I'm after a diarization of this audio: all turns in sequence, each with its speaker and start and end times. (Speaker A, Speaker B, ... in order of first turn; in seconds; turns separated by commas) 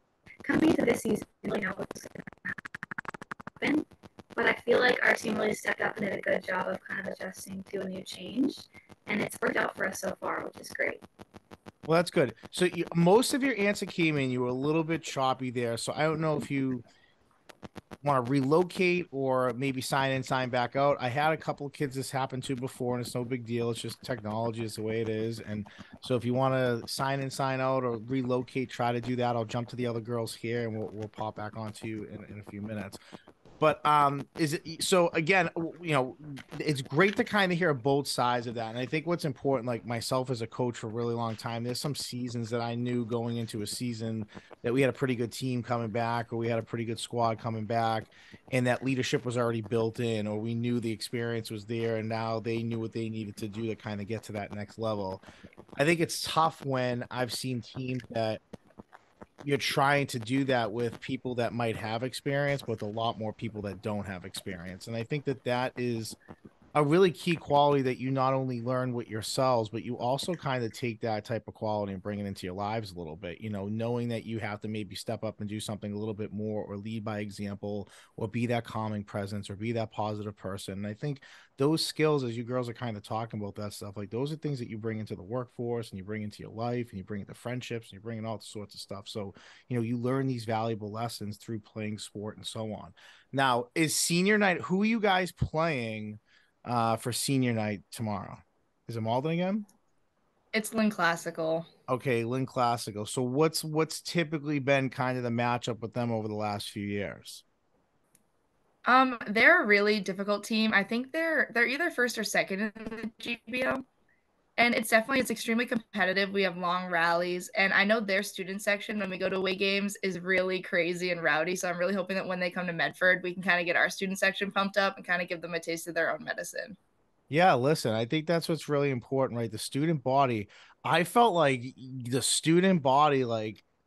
Speaker A: 0.4-2.6, Speaker A: 3.6-11.0, Speaker B: 11.8-16.8, Speaker B: 18.0-33.0, Speaker B: 33.6-55.2, Speaker B: 55.8-58.4, Speaker B: 59.4-66.2, Speaker B: 66.7-99.7, Speaker C: 100.5-101.7, Speaker B: 101.9-107.4, Speaker C: 108.8-113.8, Speaker C: 114.6-126.8, Speaker B: 127.3-133.6